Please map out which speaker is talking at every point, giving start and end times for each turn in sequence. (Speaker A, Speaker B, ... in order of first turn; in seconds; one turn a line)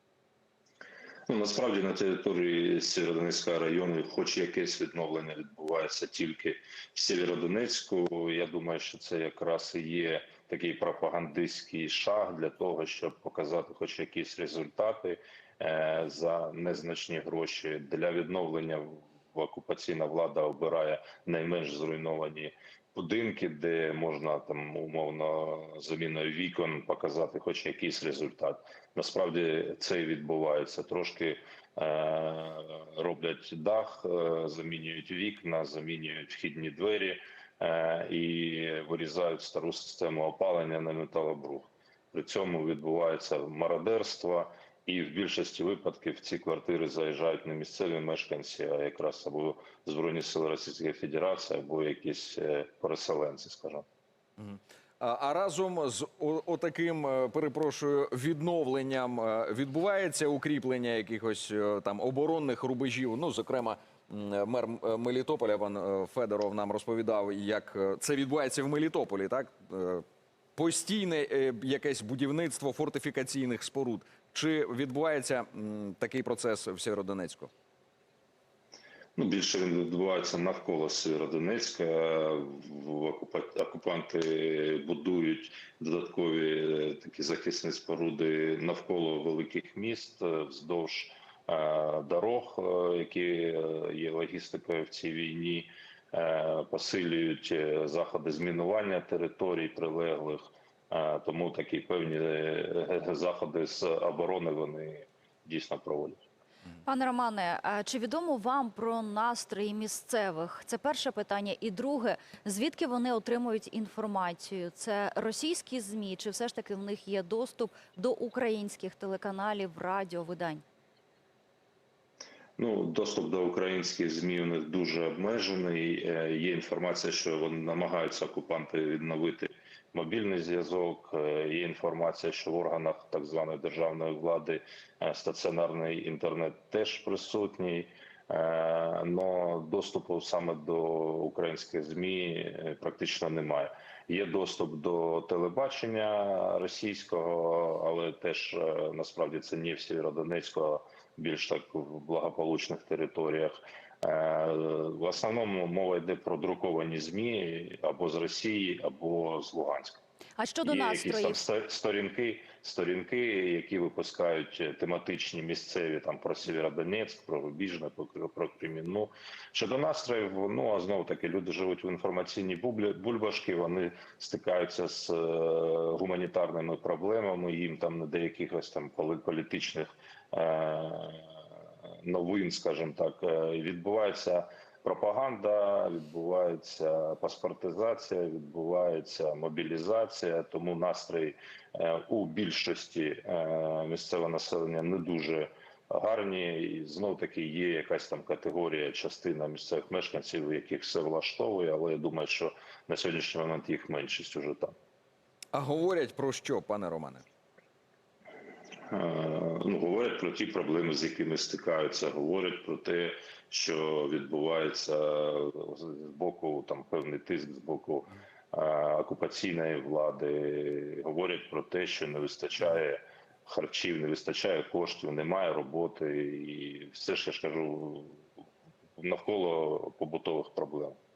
Speaker A: 1.3-53.9
Speaker B: 54.4-70.0
Speaker B: 70.6-77.5
Speaker A: 79.2-106.2
Speaker C: 106.8-120.6
Speaker A: 122.6-160.0
Speaker C: 160.4-161.4
Speaker A: 160.7-181.3
Speaker A: 182.0-204.8
Speaker B: 205.5-207.2
Speaker A: 208.9-228.3
Speaker A: 228.9-231.0